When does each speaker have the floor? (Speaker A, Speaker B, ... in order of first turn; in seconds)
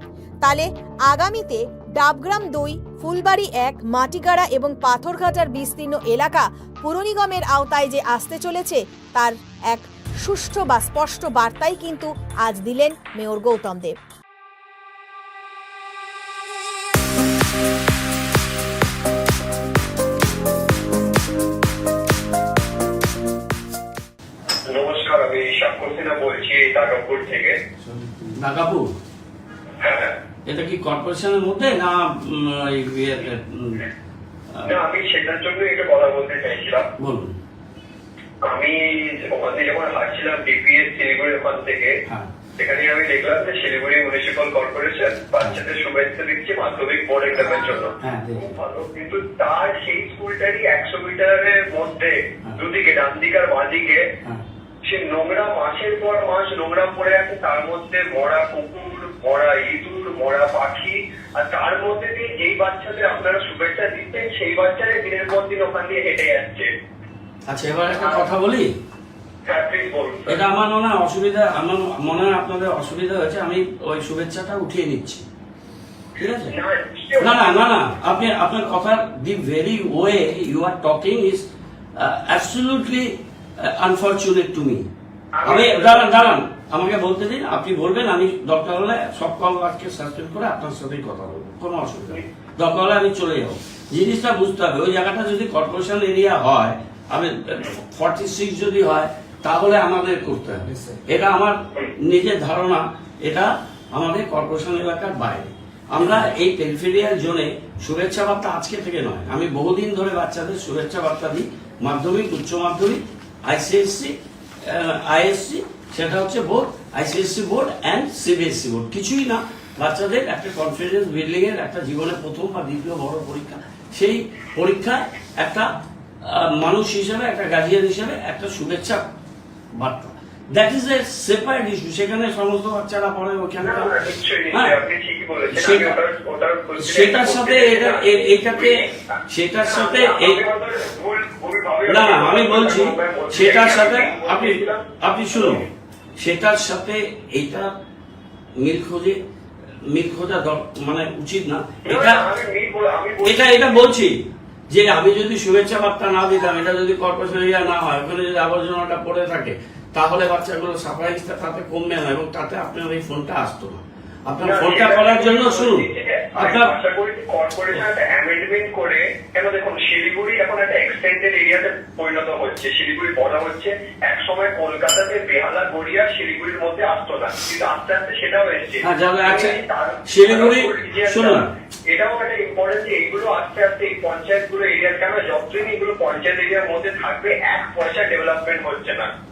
Speaker A: 0.4-13.9
Speaker B: 24.7-27.6, 29.8-30.1, 34.6-36.9, 38.4-42.0, 42.6-54.0, 54.9-66.7, 68.0-68.2, 69.5-70.4, 76.5-77.4, 85.3-86.1, 133.6-145.6, 151.8-153.7, 164.4-189.1
Speaker C: 27.8-28.9, 30.5-33.9, 37.0-37.4, 48.0-48.4, 67.5-68.7, 70.3-75.2, 76.2-76.5, 77.2-81.4, 82.0-84.8, 85.5-114.1, 114.6-125.7, 126.2-129.1, 129.8-133.9, 135.5-135.9, 136.8-140.4, 141.9-145.6, 146.2-147.7, 148.6-149.2, 149.9-152.2, 153.2-154.2, 154.7-165.8, 166.3-166.7, 178.8-181.5